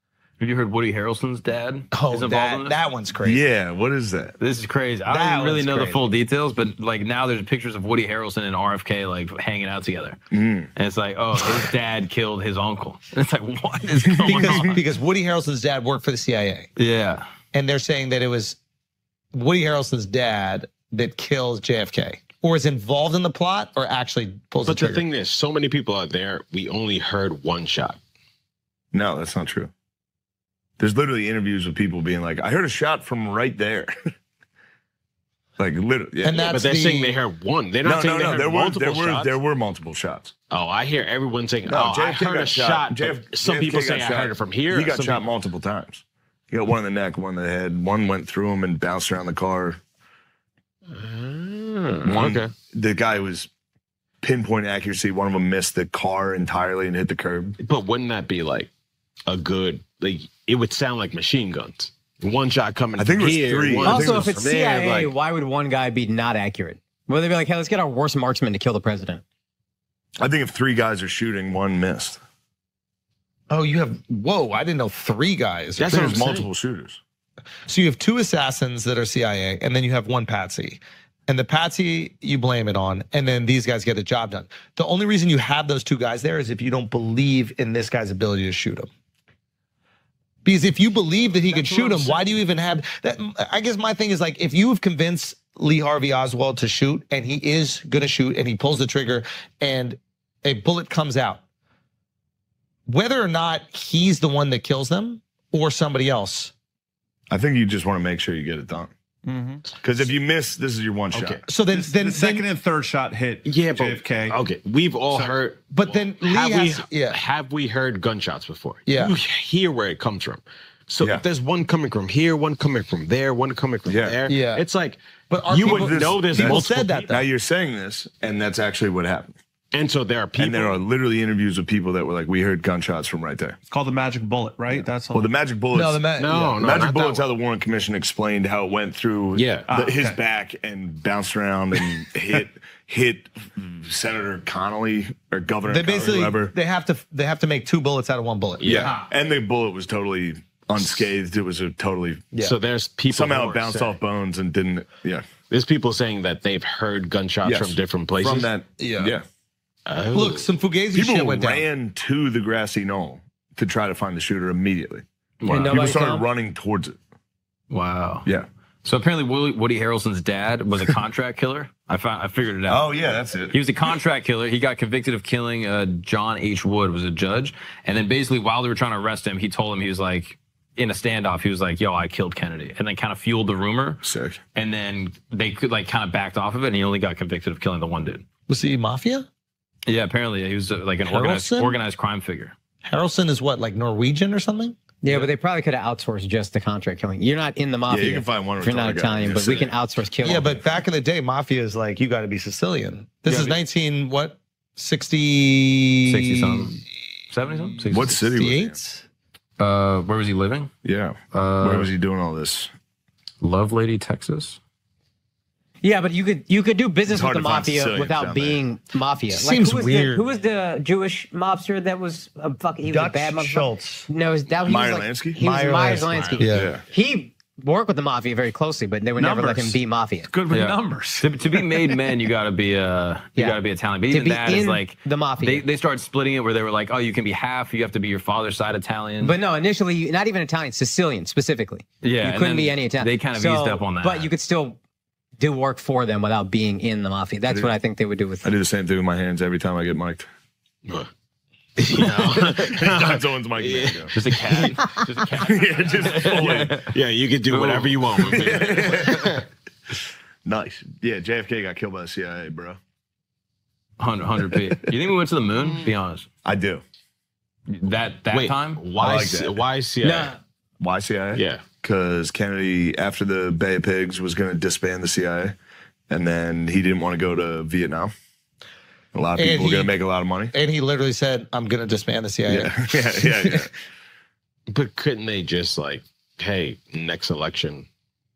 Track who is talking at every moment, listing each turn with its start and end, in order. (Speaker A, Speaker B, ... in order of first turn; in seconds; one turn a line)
Speaker A: 0.4-2.8
Speaker B: 1.9-3.4
Speaker C: 3.2-4.3
Speaker A: 4.4-10.2
Speaker B: 5.1-6.1
Speaker C: 10.3-10.7
Speaker A: 10.8-14.8
Speaker C: 14.2-14.7
Speaker B: 14.2-16.7
Speaker A: 16.8-17.2
Speaker B: 17.5-18.6
Speaker B: 19.3-25.0
Speaker D: 24.6-28.0
Speaker C: 28.9-29.7
Speaker C: 30.8-34.1
Speaker C: 35.6-36.6
Speaker B: 36.2-37.2
Speaker D: 36.5-39.3
Speaker C: 37.8-40.3
Speaker D: 40.5-45.3
Speaker C: 41.7-49.8
Speaker D: 50.9-52.5
Speaker C: 52.0-53.5
Speaker C: 54.2-57.6
Speaker D: 57.6-58.7
Speaker D: 59.3-65.1
Speaker C: 63.0-64.4
Speaker E: 63.8-69.2
Speaker C: 70.2-72.2
Speaker B: 73.5-76.4
Speaker D: 75.8-76.5
Speaker C: 75.8-77.0
Speaker B: 77.7-88.9
Speaker B: 90.4-101.4
Speaker D: 91.5-92.3
Speaker B: 102.9-106.5
Speaker C: 107.3-108.9
Speaker F: 109.2-109.6
Speaker C: 109.8-111.4
Speaker D: 111.1-111.4
Speaker B: 111.5-112.5
Speaker F: 111.7-114.4
Speaker D: 113.4-127.1
Speaker B: 115.7-117.2
Speaker B: 118.8-119.2
Speaker C: 123.8-124.2
Speaker B: 124.3-124.7
Speaker B: 125.3-127.3
Speaker C: 125.5-129.3
Speaker D: 129.7-130.8
Speaker C: 130.4-133.6
Speaker F: 133.7-135.3
Speaker C: 134.7-146.5
Speaker B: 135.7-136.6
Speaker D: 136.2-137.2
Speaker D: 139.3-139.7
Speaker F: 139.7-140.2
Speaker B: 145.7-148.8
Speaker D: 148.6-149.0
Speaker C: 148.6-152.3
Speaker D: 152.4-153.9
Speaker C: 153.1-155.2
Speaker D: 155.5-158.5
Speaker C: 157.4-159.2
Speaker B: 158.8-159.1
Speaker D: 159.8-160.5
Speaker B: 160.1-161.6
Speaker C: 160.9-165.0
Speaker A: 165.4-165.7
Speaker D: 165.4-165.9
Speaker E: 165.5-166.2
Speaker C: 165.7-166.9
Speaker A: 167.7-168.3
Speaker A: 168.8-172.9
Speaker C: 172.7-173.6
Speaker A: 173.5-184.0
Speaker C: 184.0-184.4
Speaker A: 184.5-188.2
Speaker B: 188.5-189.3
Speaker A: 189.9-192.5
Speaker B: 191.1-191.8
Speaker B: 192.8-194.8
Speaker E: 195.0-200.6
Speaker C: 197.9-199.7
Speaker B: 200.2-206.8
Speaker D: 203.3-203.5
Speaker A: 206.1-208.1
Speaker B: 207.5-209.0
Speaker C: 207.9-208.7
Speaker A: 209.6-210.7
Speaker C: 210.8-212.7
Speaker A: 211.3-211.9
Speaker A: 213.4-214.6
Speaker E: 215.8-230.3
Speaker C: 217.1-218.6
Speaker B: 219.3-220.2
Speaker B: 222.9-224.1
Speaker C: 224.6-225.4
Speaker B: 225.4-226.7
Speaker C: 226.2-226.8
Speaker F: 229.2-231.7
Speaker A: 230.5-239.3
Speaker E: 234.1-235.6
Speaker E: 239.2-244.8
Speaker A: 242.0-244.3
Speaker E: 245.4-248.4
Speaker C: 248.4-250.3
Speaker D: 251.8-254.7
Speaker C: 252.1-254.1
Speaker A: 254.1-256.8
Speaker C: 255.4-256.9
Speaker D: 256.9-259.4
Speaker C: 257.5-259.4
Speaker C: 260.4-262.8
Speaker A: 264.0-266.2
Speaker C: 266.4-266.8
Speaker A: 267.8-268.8
Speaker D: 268.3-270.4
Speaker C: 269.0-269.6
Speaker E: 270.0-270.4
Speaker C: 270.8-275.5
Speaker D: 271.3-271.6
Speaker C: 276.1-278.1
Speaker C: 279.1-280.5
Speaker B: 279.4-279.9
Speaker B: 280.5-283.6
Speaker C: 282.5-283.7
Speaker D: 284.7-287.9